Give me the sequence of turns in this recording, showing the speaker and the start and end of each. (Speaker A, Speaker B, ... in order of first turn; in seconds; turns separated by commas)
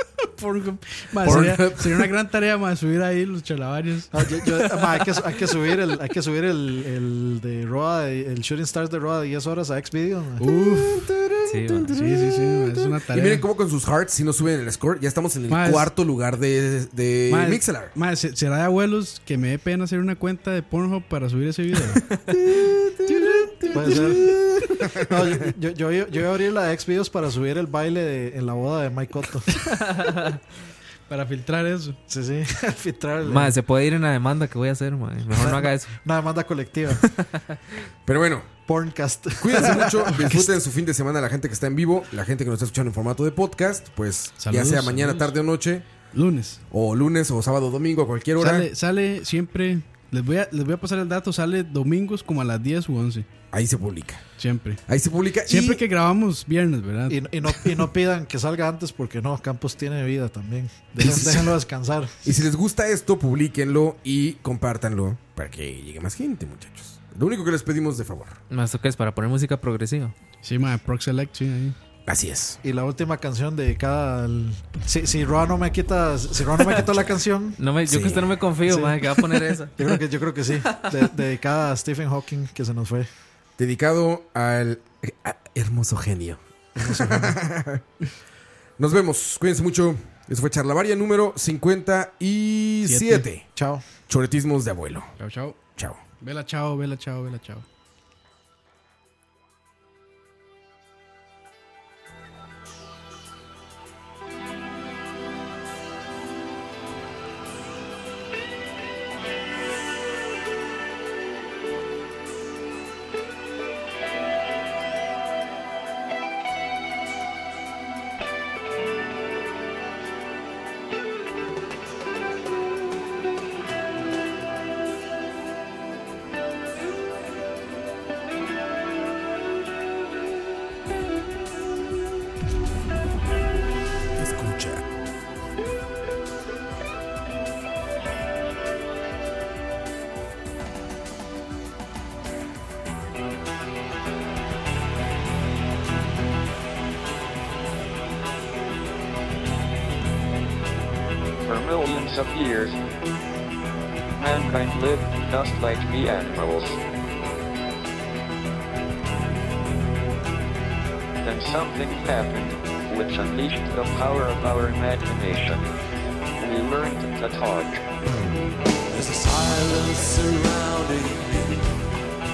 Speaker A: 0.2-4.1, Speaker B: 1.2-2.1, Speaker C: 4.1-10.4, Speaker A: 10.4-11.1, Speaker B: 10.5-17.9, Speaker D: 11.5-11.9, Speaker A: 11.9-13.4, Speaker A: 15.5-15.9, Speaker A: 17.3-22.1, Speaker B: 22.3-25.5, Speaker A: 23.1-24.3, Speaker C: 23.7-29.6, Speaker D: 29.9-30.3, Speaker A: 31.1-32.0, Speaker C: 32.1-33.6, Speaker D: 33.2-35.9, Speaker C: 35.3-37.1, Speaker D: 37.0-37.4, Speaker B: 38.1-38.5, Speaker C: 38.7-40.4, Speaker B: 39.4-45.9, Speaker A: 44.4-45.3, Speaker A: 46.1-46.6, Speaker B: 46.7-48.7, Speaker A: 48.4-53.3, Speaker B: 53.5-54.2, Speaker A: 54.4-54.8, Speaker B: 54.9-55.8, Speaker A: 55.5-57.5, Speaker C: 57.1-62.1, Speaker B: 61.0-61.5, Speaker B: 62.2-68.4, Speaker D: 68.5-70.1, Speaker A: 70.4-71.8, Speaker B: 72.1-72.6, Speaker C: 72.6-77.6, Speaker D: 77.6-79.8, Speaker B: 77.9-78.4, Speaker C: 78.7-79.0, Speaker C: 79.7-83.1, Speaker B: 83.6-87.8, Speaker C: 86.8-87.4, Speaker B: 88.8-93.5, Speaker A: 92.8-93.3, Speaker C: 93.5-93.8, Speaker B: 94.1-95.1, Speaker A: 95.2-95.6, Speaker B: 95.8-96.0, Speaker A: 96.2-97.7, Speaker B: 134.2-134.8, Speaker E: 151.4-152.8, Speaker E: 154.2-156.8, Speaker E: 161.2-165.7, Speaker E: 166.4-167.8, Speaker F: 168.9-171.7